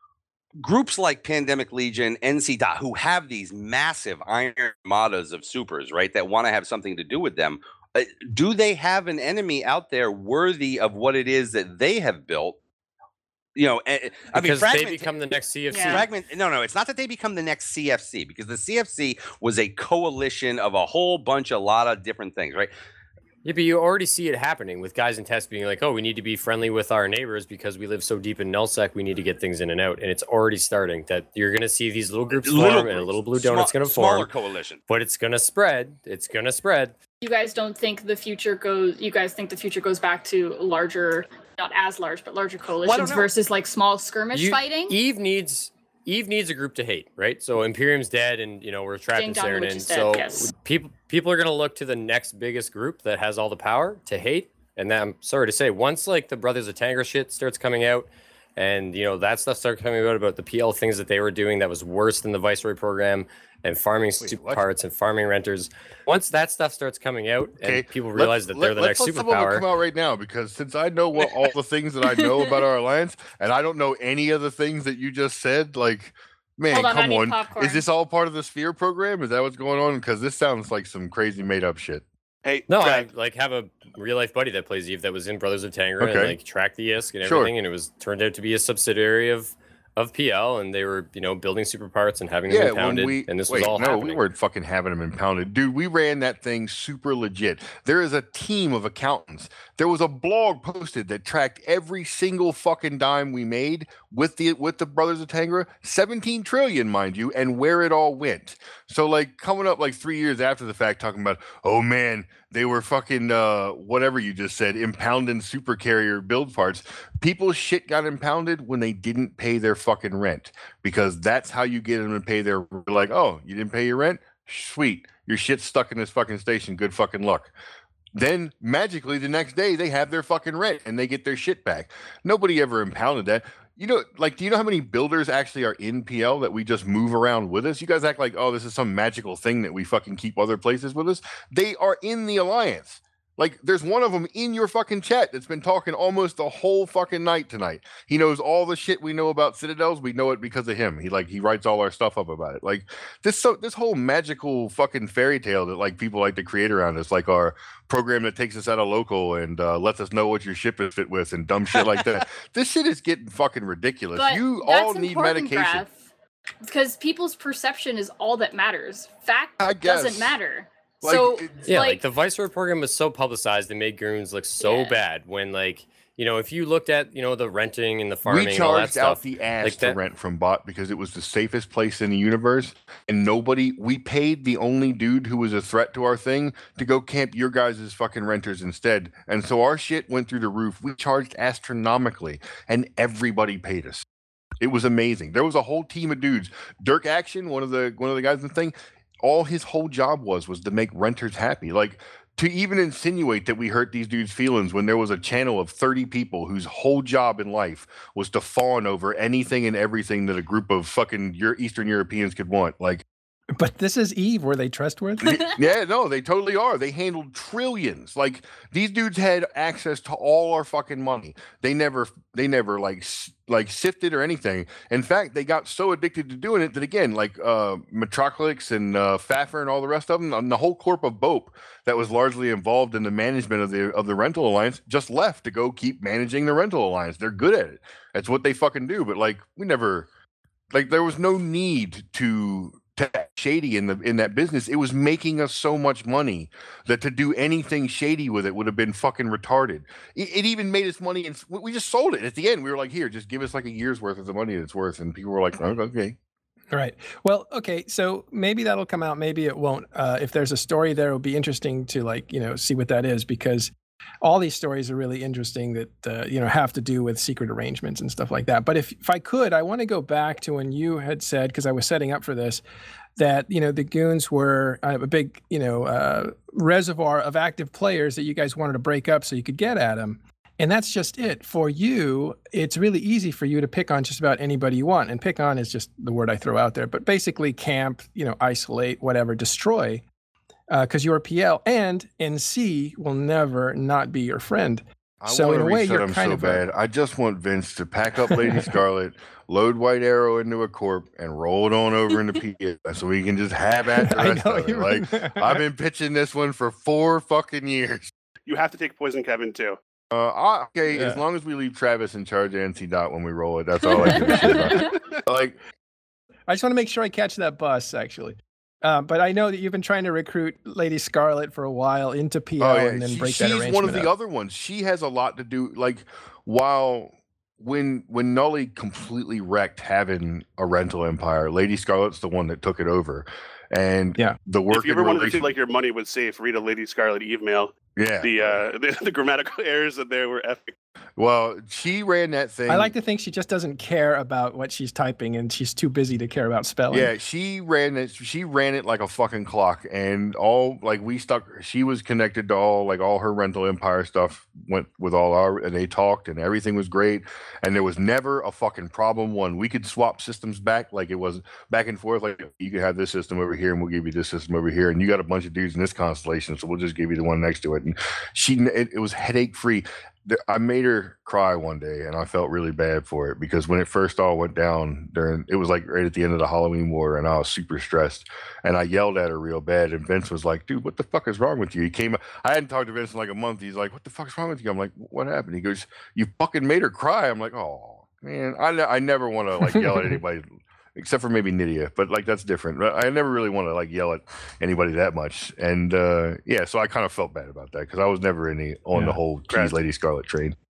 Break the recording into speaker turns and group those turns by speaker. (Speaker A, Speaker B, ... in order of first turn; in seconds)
Speaker A: 0.6-12.6, 13.6-15.2, 15.8-22.7, 32.3-34.8, 42.9-43.3
Speaker B: 14.3-16.1, 23.4-34.3, 34.9-37.0, 44.3-69.7, 82.7-94.2, 171.6-180.0
Speaker C: 15.7-16.0, 37.2-45.0, 49.1-50.5, 72.1-72.5, 76.7-77.8, 164.2-166.0, 166.7-172.0, 174.6-175.0, 215.2-215.6, 314.2-314.7
Speaker D: 64.2-64.7, 67.6-82.0, 86.0-86.4, 87.2-87.5, 92.5-127.5, 128.1-165.8, 169.6-170.4, 171.0-171.5, 178.3-194.1, 194.6-213.1, 215.2-240.1, 240.7-256.2, 295.2-308.1, 310.1-315.6, 322.6-335.5, 338.0-338.6, 341.2-342.9, 346.9-400.6
Speaker E: 82.5-83.1, 308.5-309.8, 334.7-340.7, 399.5-399.8
Speaker F: 213.6-215.3, 256.7-272.6, 273.2-290.0, 290.7-296.6, 298.3-298.6, 304.0-305.6, 310.9-311.2, 314.0-315.0, 316.5-324.1, 342.7-347.1, 389.7-390.2, 398.9-399.2